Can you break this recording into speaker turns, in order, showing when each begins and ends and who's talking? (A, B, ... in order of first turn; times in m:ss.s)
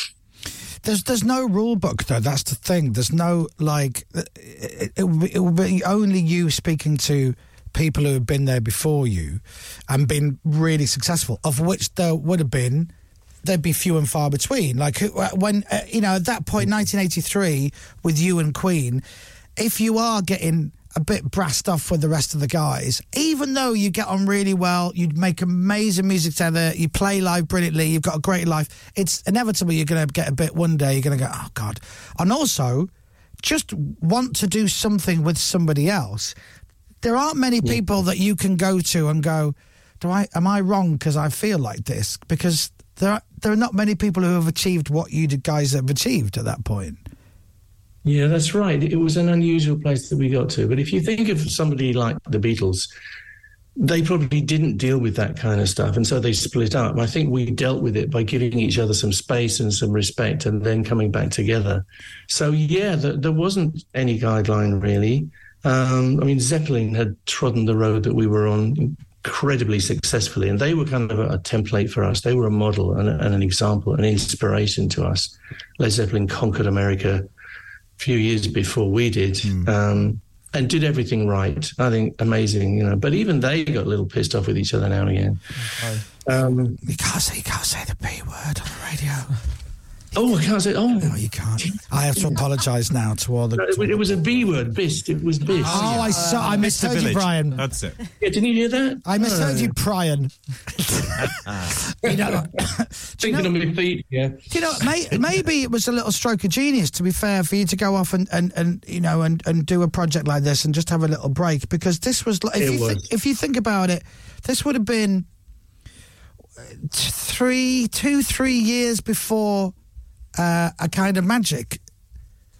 0:00.8-0:12.9 A
0:13.4-0:19.0 A
0:19.6-0:32.9 A
0:33.4-0:36.3 A
0:37.0-0:47.0 A
0:48.0-0:52.9 B
0:53.8-1:17.3 B
1:18.0-1:25.4 B
1:26.2-1:26.8 B
1:26.8-1:29.3 A
1:30.1-1:31.2 B
1:31.0-1:34.2 A
1:33.6-1:36.0 B
1:35.6-1:37.6 A
1:35.6-1:38.0 C
1:38.2-1:39.7 B
1:39.0-1:43.5 A
1:41.3-1:41.6 C
1:42.1-1:42.4 B
1:43.2-1:44.6 B
1:44.5-1:55.3 A
1:52.6-1:53.0 B
1:56.6-1:59.7 A
2:00.4-2:01.8 A